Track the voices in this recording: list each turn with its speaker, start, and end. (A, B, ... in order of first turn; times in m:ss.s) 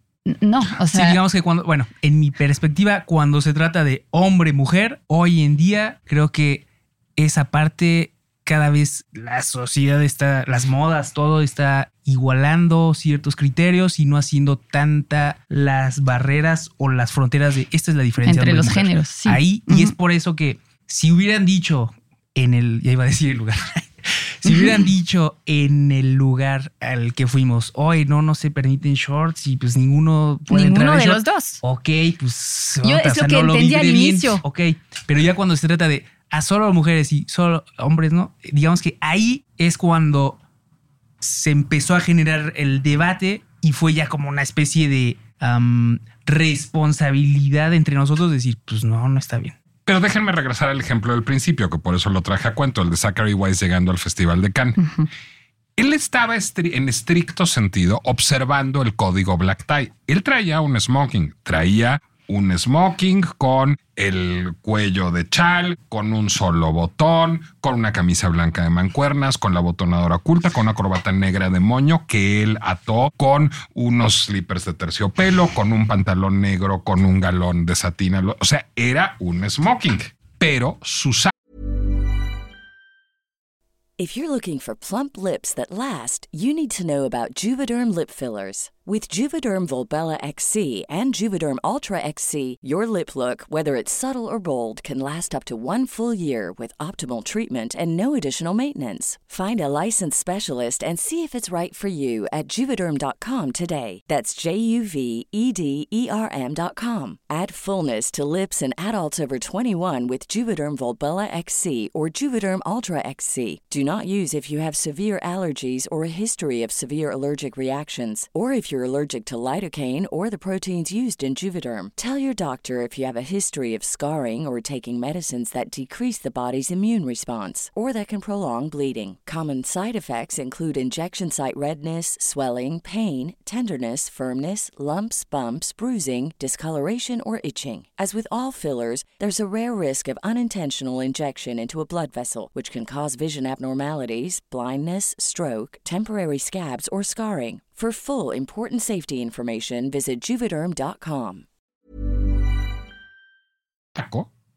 0:00.3-0:01.2 A
0:00.9-0:06.6 B
0:07.2-0:40.4 B
0:18.2-0:19.9 A
0:24.4-0:24.7 A
0:30.5-0:31.6 A
0:32.8-0:34.4 A
0:41.2-0:49.5 B
0:49.8-0:54.8 C
0:54.8-0:55.1 A
0:55.8-1:21.3 C
1:24.0-2:31.4 D
2:33.9-2:34.3 C